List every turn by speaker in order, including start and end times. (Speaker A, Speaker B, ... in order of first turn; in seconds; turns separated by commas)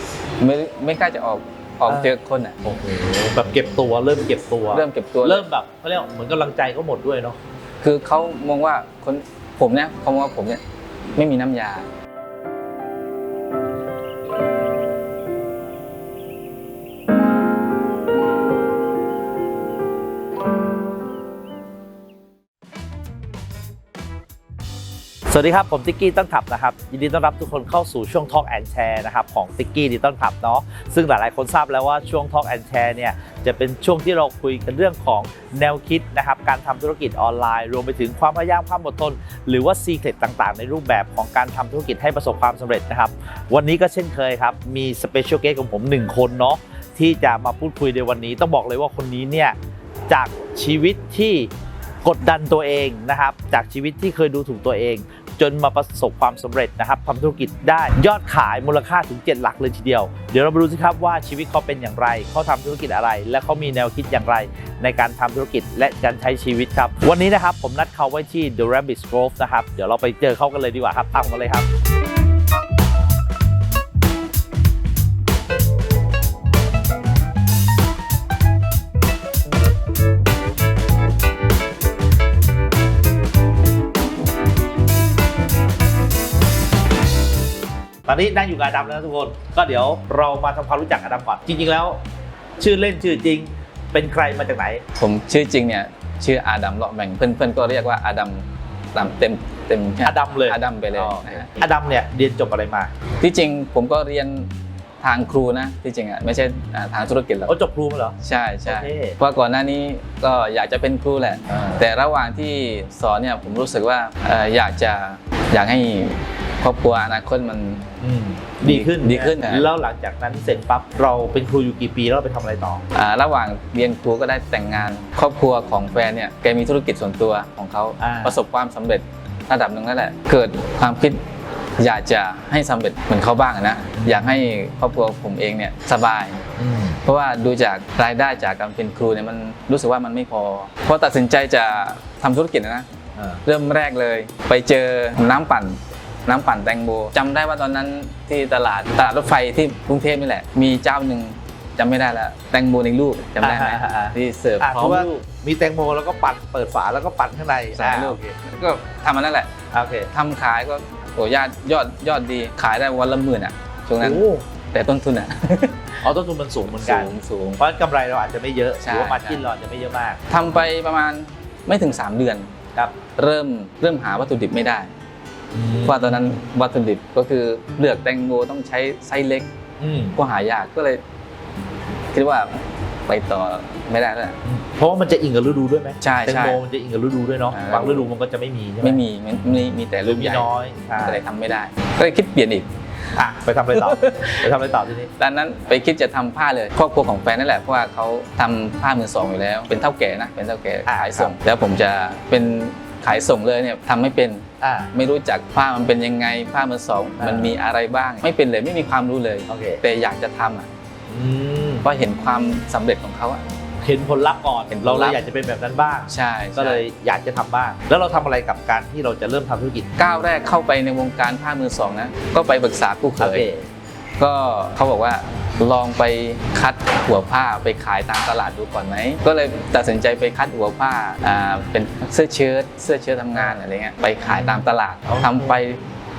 Speaker A: 0.4-2.6, Speaker B: 1.9-7.4, Speaker A: 4.7-5.5, Speaker A: 7.8-10.6, Speaker A: 11.2-11.9, Speaker B: 25.3-49.6, Speaker B: 50.1-51.5, Speaker B: 52.0-71.7, Speaker B: 88.1-92.0, Speaker B: 92.6-94.8, Speaker A: 95.0-101.5, Speaker B: 100.0-102.9, Speaker A: 103.2-104.5, Speaker A: 105.0-107.5, Speaker B: 107.5-109.2, Speaker A: 108.2-117.9, Speaker B: 111.5-111.8, Speaker B: 118.0-122.8, Speaker A: 118.6-119.7, Speaker A: 122.9-131.2, Speaker B: 128.0-128.4, Speaker A: 131.8-136.4, Speaker B: 136.6-137.0, Speaker A: 137.0-142.9, Speaker B: 143.2-143.4, Speaker A: 143.4-155.1, Speaker B: 153.4-158.3, Speaker A: 157.8-159.5, Speaker B: 159.7-160.1, Speaker A: 160.1-165.9, Speaker B: 164.0-164.4, Speaker B: 166.0-170.3, Speaker A: 166.7-167.6, Speaker A: 168.8-169.4, Speaker A: 170.3-172.5, Speaker A: 173.2-174.9, Speaker B: 175.5-176.3, Speaker A: 175.8-179.5, Speaker B: 179.8-180.2, Speaker A: 180.2-181.0, Speaker A: 182.1-184.4, Speaker B: 184.4-189.0, Speaker A: 186.0-186.6, Speaker A: 187.5-188.1, Speaker A: 188.8-192.7, Speaker B: 190.0-191.2, Speaker B: 193.2-195.1, Speaker A: 193.7-194.5, Speaker A: 195.2-210.7, Speaker B: 200.9-201.4, Speaker B: 204.6-204.9, Speaker B: 207.2-207.5, Speaker B: 209.5-209.8, Speaker B: 211.1-211.9, Speaker A: 211.8-213.4, Speaker B: 213.8-219.9, Speaker A: 214.7-215.2, Speaker A: 216.1-216.8, Speaker A: 220.0-223.5, Speaker B: 223.2-223.7, Speaker A: 224.2-235.8, Speaker B: 234.3-235.6